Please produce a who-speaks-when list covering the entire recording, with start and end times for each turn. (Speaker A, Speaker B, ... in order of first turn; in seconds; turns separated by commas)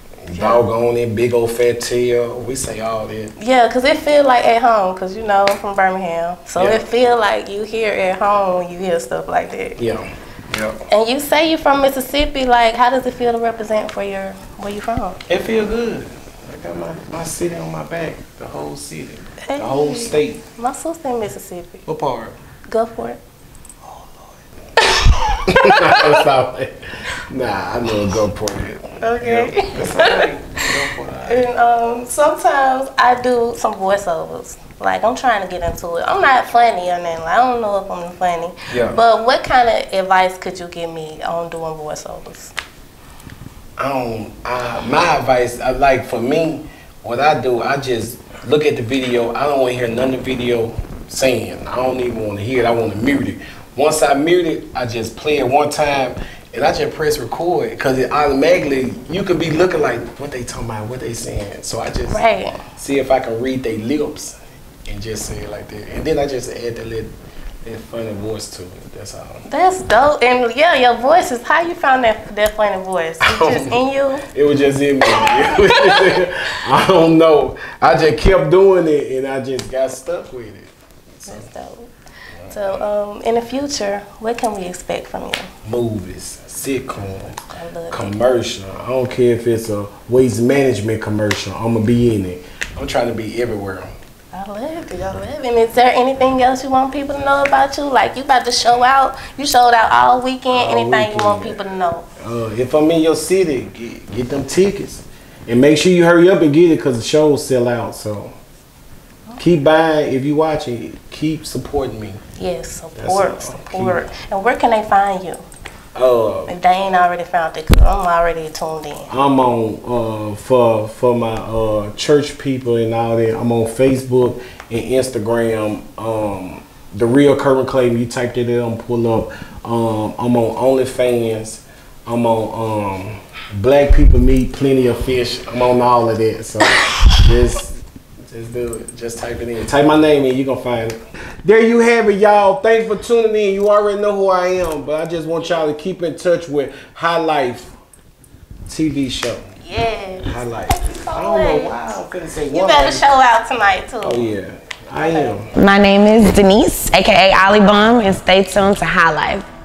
Speaker A: 0.2-3.3, Speaker B: 0.3-0.6, Speaker B: 3.4-9.8, Speaker A: 6.6-6.9, Speaker A: 9.8-10.7, Speaker B: 10.9-15.2, Speaker A: 15.3-20.4, Speaker B: 19.4-21.8, Speaker A: 21.8-22.4, Speaker B: 22.7-23.2, Speaker A: 23.9-24.2, Speaker B: 24.8-26.1, Speaker A: 25.5-31.4, Speaker B: 29.0-30.2, Speaker B: 31.2-42.5, Speaker A: 38.7-39.0, Speaker A: 43.8-67.1, Speaker B: 62.1-62.6, Speaker A: 67.6-69.4, Speaker B: 69.5-74.2, Speaker A: 73.2-81.5, Speaker B: 75.8-76.1, Speaker B: 81.3-81.9, Speaker A: 82.4-82.8, Speaker B: 82.5-85.5, Speaker A: 85.6-93.9, Speaker B: 87.5-88.2, Speaker B: 94.3-102.1, Speaker A: 100.5-101.6, Speaker A: 102.2-108.3, Speaker A: 109.4-112.2, Speaker B: 112.4-115.4, Speaker A: 113.0-114.0, Speaker A: 115.9-116.5, Speaker B: 116.5-119.1, Speaker A: 119.1-147.7, Speaker A: 148.7-149.5, Speaker B: 149.6-151.8, Speaker A: 150.2-153.0, Speaker B: 152.5-154.3, Speaker A: 154.0-155.5, Speaker B: 155.0-155.3, Speaker C: 155.5-159.5